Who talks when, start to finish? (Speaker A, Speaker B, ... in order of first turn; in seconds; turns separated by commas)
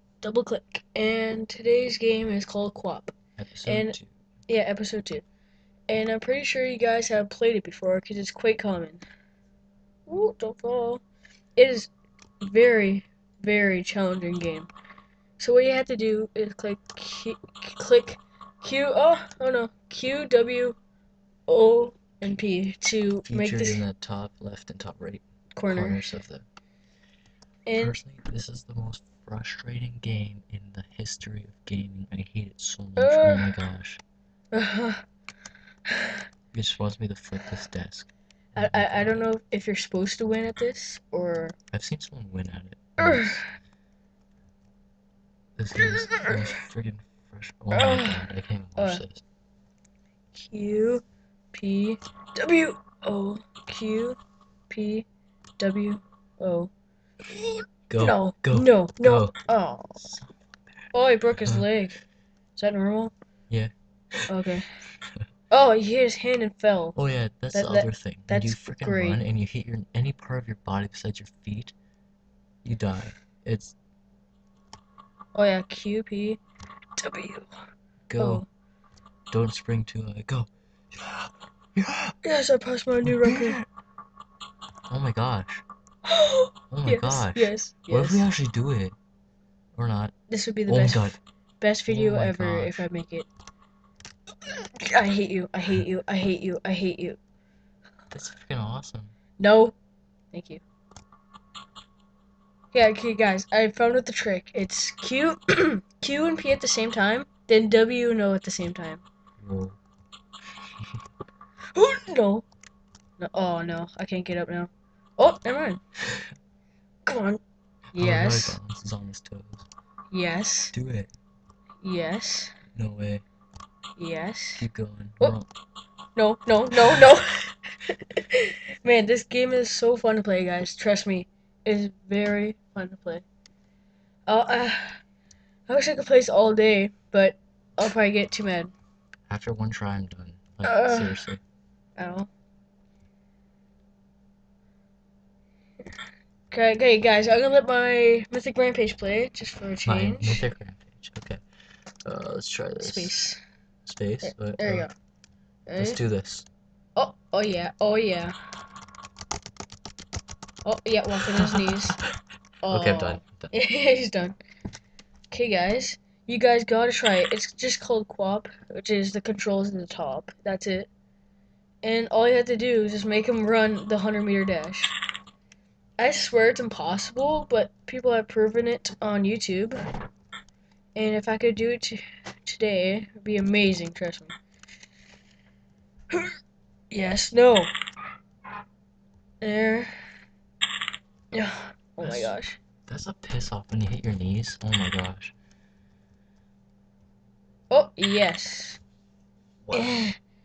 Speaker A: 0.2-4.0, Speaker B: 3.4-4.1, Speaker A: 4.5-5.2, Speaker A: 5.9-9.0, Speaker A: 10.1-11.0, Speaker A: 11.6-11.9, Speaker A: 12.4-14.7, Speaker A: 15.4-20.8, Speaker A: 21.5-23.8, Speaker B: 23.2-26.5, Speaker A: 25.5-26.1, Speaker A: 27.6-28.0, Speaker B: 27.8-34.0, Speaker A: 33.0-33.5, Speaker A: 34.5-35.0, Speaker A: 35.9-36.2, Speaker B: 36.5-39.2, Speaker A: 38.5-41.5, Speaker B: 41.7-43.4, Speaker A: 43.0-43.5, Speaker B: 45.6-49.2, Speaker A: 45.8-46.3, Speaker A: 47.7-49.0, Speaker A: 50.3-54.2, Speaker A: 54.7-55.0, Speaker A: 55.6-56.7, Speaker B: 57.9-59.4, Speaker A: 58.0-60.0, Speaker B: 60.0-61.7, Speaker A: 60.9-62.0, Speaker A: 62.5-63.1, Speaker B: 63.5-64.3, Speaker A: 64.3-64.7, Speaker A: 65.5-67.0, Speaker B: 66.9-71.7, Speaker A: 67.5-69.2, Speaker B: 72.6-73.7, Speaker A: 75.3-76.4, Speaker A: 77.0-77.5, Speaker B: 78.1-78.4, Speaker A: 78.2-78.5, Speaker B: 79.3-82.2, Speaker A: 82.2-83.6, Speaker B: 83.0-83.7, Speaker B: 84.9-85.6, Speaker A: 86.0-88.2, Speaker B: 86.7-88.9, Speaker B: 89.8-90.1, Speaker A: 90.3-93.3, Speaker B: 90.7-91.2, Speaker B: 91.9-92.9, Speaker A: 94.5-97.2, Speaker B: 98.1-99.1, Speaker A: 99.4-99.8, Speaker A: 100.3-100.6, Speaker A: 102.7-109.0, Speaker B: 109.4-109.8, Speaker A: 111.7-112.4, Speaker A: 113.2-115.8, Speaker A: 117.0-117.4, Speaker A: 117.9-118.6, Speaker B: 117.9-119.7, Speaker A: 120.1-120.7, Speaker B: 120.7-121.1, Speaker A: 121.8-122.5, Speaker B: 122.7-123.2, Speaker A: 124.0-124.6, Speaker B: 124.6-125.5, Speaker A: 126.2-133.2, Speaker A: 134.3-135.0, Speaker A: 135.7-138.7, Speaker B: 139.3-141.4, Speaker A: 140.6-141.2, Speaker A: 142.0-142.3, Speaker A: 146.5-150.4, Speaker B: 149.8-151.4, Speaker B: 152.0-153.2, Speaker A: 152.8-153.4, Speaker B: 153.8-154.9, Speaker A: 154.2-154.9, Speaker A: 155.7-156.0, Speaker B: 155.8-156.4, Speaker A: 156.9-158.3, Speaker A: 160.6-162.0, Speaker B: 161.2-161.9, Speaker A: 162.6-164.4, Speaker B: 162.7-163.5, Speaker A: 165.3-170.9, Speaker A: 171.8-174.9, Speaker A: 176.0-179.8, Speaker A: 180.9-184.3, Speaker A: 186.9-187.7, Speaker A: 189.4-189.9, Speaker A: 191.3-192.6, Speaker B: 192.0-192.3, Speaker B: 192.9-195.3, Speaker A: 197.7-198.8, Speaker B: 199.6-200.1, Speaker A: 199.7-200.1